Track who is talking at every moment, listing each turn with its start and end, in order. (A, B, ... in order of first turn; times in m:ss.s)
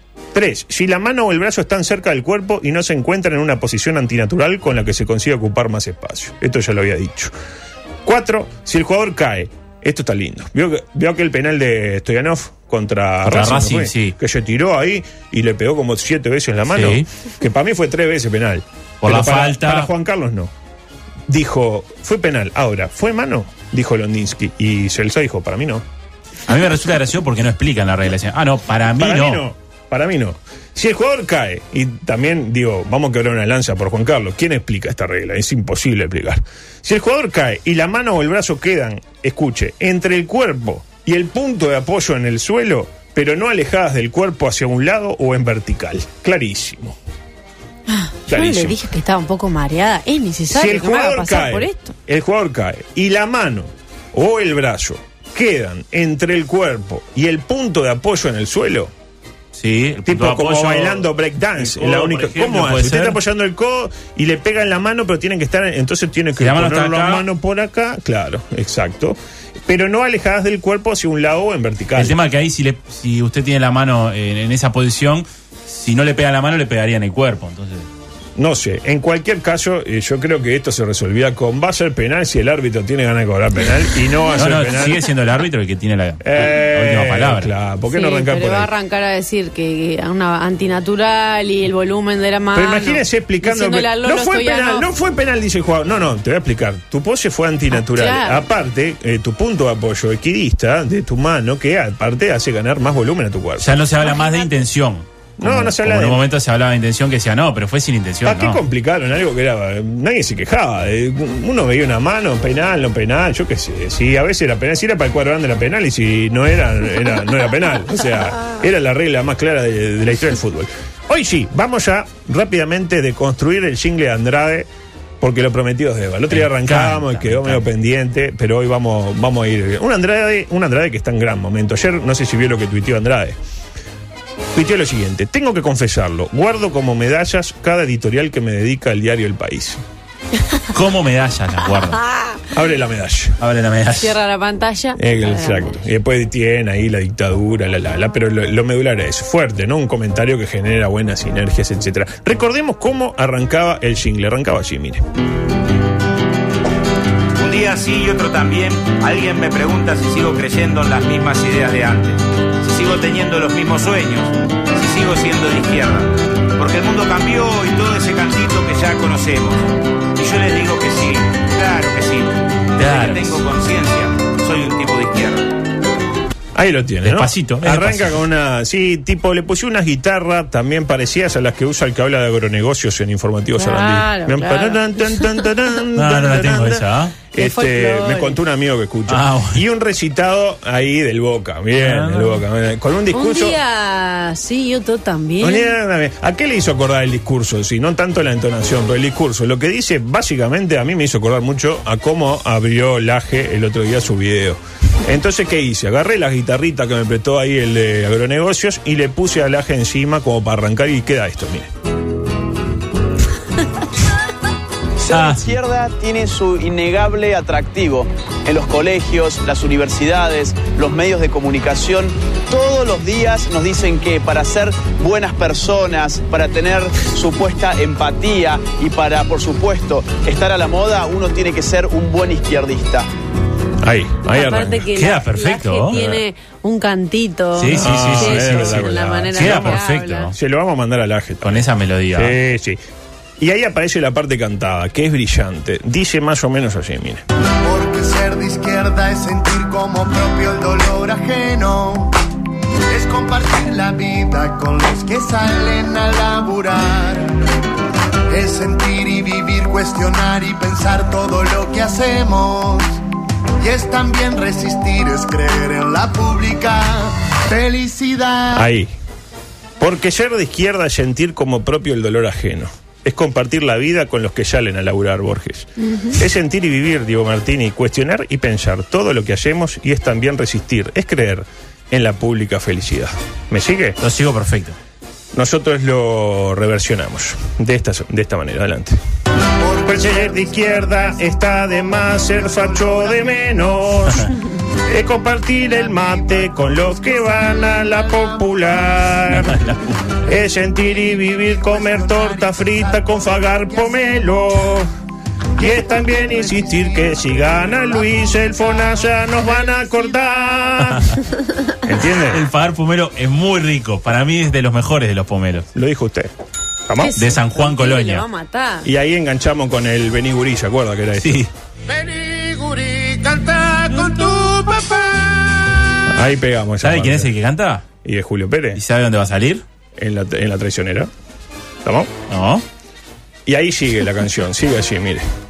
0:00.3-0:07.3 A
0:08.0-0:20.5 A
0:13.2-0:14.2 B
0:16.7-0:17.1 B
0:19.0-0:19.9 B
0:21.3-0:25.8 A
0:26.5-0:29.4 B
0:29.0-0:47.0 A
0:47.9-0:52.0 C
0:48.3-0:48.8 A
0:50.5-0:58.9 A
0:59.6-1:03.2 B
1:00.0-1:12.2 A
1:06.4-1:07.3 B
1:12.0-1:17.9 B
1:18.4-1:25.0 A
1:24.4-1:27.5 B
1:26.2-1:28.7 A
1:27.9-1:34.9 C
1:32.5-1:43.7 A
1:37.7-1:38.5 C
1:43.6-1:48.6 B
1:44.0-1:44.5 C
1:45.4-1:46.2 A
1:48.2-2:04.7 A
2:05.2-2:13.4 A
2:06.3-2:07.6 B
2:14.5-2:19.8 A
2:20.7-2:22.0 B
2:22.0-2:22.4 C
2:22.5-2:23.4 A
2:23.4-2:24.2 B
2:24.0-2:25.8 C
2:25.0-2:35.0 A
2:37.4-2:55.6 D
2:52.8-2:53.4 B
2:56.6-3:13.6 A
2:57.0-2:58.2 B
3:03.6-3:05.4 C
3:05.9-3:07.2 B
3:07.4-3:08.4 C
3:09.1-3:09.6 B
3:11.7-3:12.4 B
3:13.1-3:15.7 C
3:15.4-3:31.7 A
3:35.0-3:53.1 E
3:35.1-3:35.5 B
3:53.8-3:54.9 A
3:54.2-4:00.3 C
3:55.0-3:56.2 B
3:57.6-4:00.3 B
3:57.7-3:59.8 A
4:00.3-4:02.8 A
4:01.4-4:02.4 B
4:03.4-4:07.2 A
4:07.6-4:12.2 F
4:12.9-4:17.3 F
4:18.3-4:23.0 F
4:23.6-4:28.7 F
4:28.5-4:28.9 A
4:29.8-4:44.0 A
4:35.8-4:36.2 C
4:44.0-4:44.8 B
4:45.3-4:49.0 A
4:49.6-4:54.1 F
4:49.8-4:54.3 A
4:54.9-5:04.9 A
4:55.7-4:59.4 F
4:59.5-4:59.9 B
5:00.8-5:04.6 F
5:05.6-5:10.0 F
5:05.6-5:11.2 A
5:10.9-5:11.2 B
5:11.8-5:12.5 A
5:12.3-5:15.7 B
5:15.8-5:16.3 A
5:16.9-5:17.1 A
5:17.0-5:18.9 C
5:17.2-5:18.2 B
5:18.8-5:21.5 A
5:21.2-5:21.5 B
5:24.1-5:24.5 B
5:26.0-5:27.3 A
5:26.8-5:27.9 B
5:28.0-5:28.8 A
5:28.8-5:29.6 B
5:30.0-5:31.1 A
5:31.8-5:32.1 A
5:32.3-5:32.6 B
5:33.5-5:35.2 A